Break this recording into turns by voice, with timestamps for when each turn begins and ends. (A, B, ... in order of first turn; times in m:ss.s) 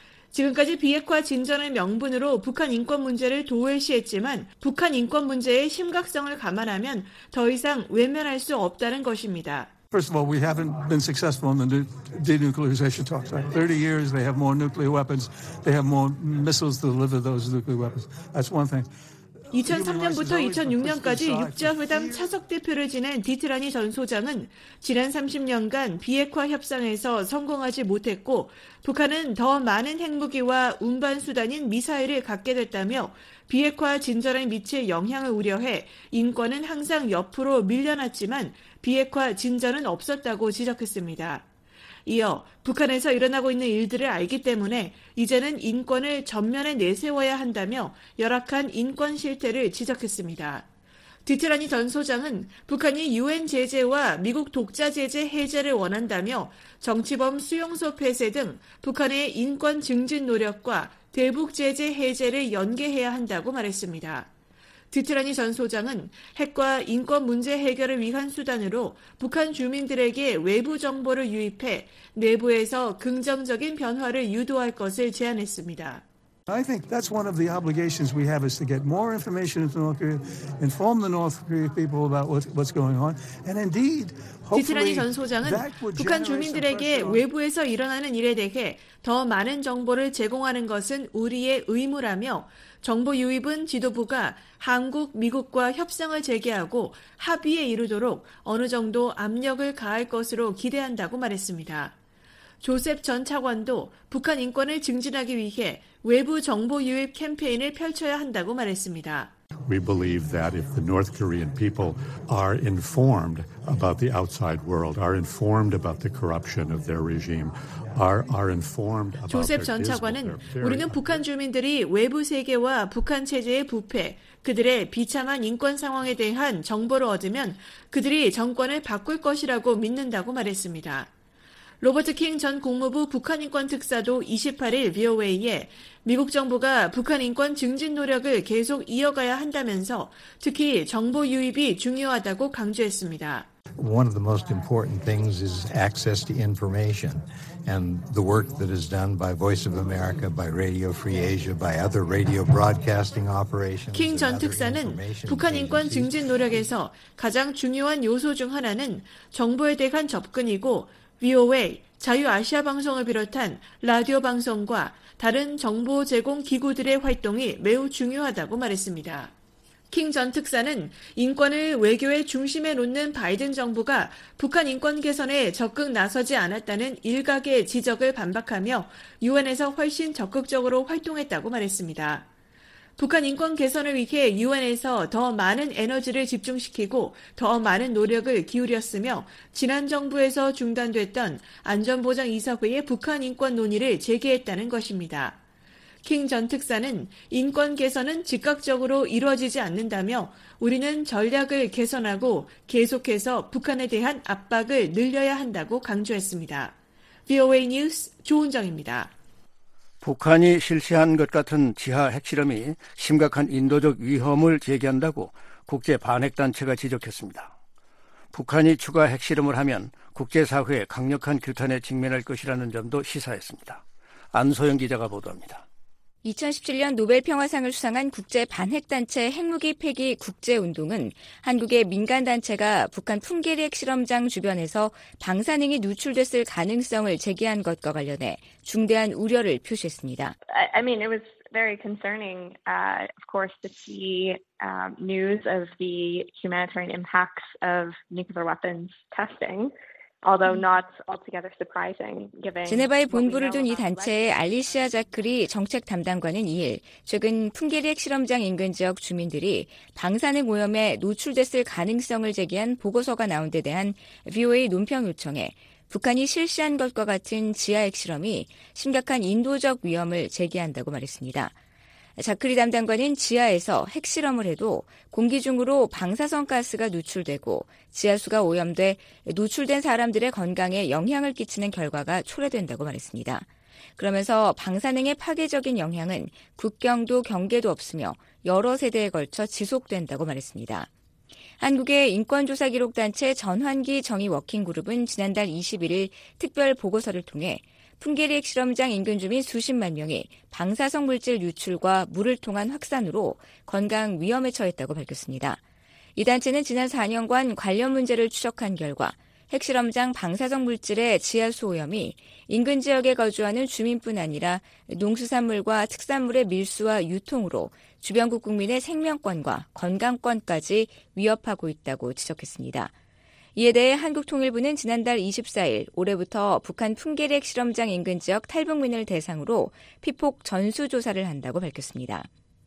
0:00.3-0:09.7 A
0:09.9-0:18.9 B
0:19.5-0:22.4 B
0:19.5-0:41.4 A
0:42.0-0:50.6 A
0:51.2-1:04.3 A
1:04.9-1:16.0 A
1:16.5-1:27.3 B
1:24.5-1:41.9 A
1:42.6-1:49.3 A
1:49.6-2:01.2 C
1:59.3-2:11.1 A
2:11.8-2:23.5 A
2:23.8-2:35.7 D
2:33.9-2:49.3 A
2:49.9-3:02.2 A
3:03.0-3:15.4 A
3:16.0-3:26.7 A
3:27.3-3:29.1 A
3:30.0-3:37.5 E
3:38.3-3:45.6 E
3:46.2-4:00.3 F
4:00.5-4:14.9 G
4:12.6-4:31.5 F
4:32.2-4:50.9 F
4:51.6-5:05.6 F
5:06.2-5:22.9 F
5:23.6-5:32.3 F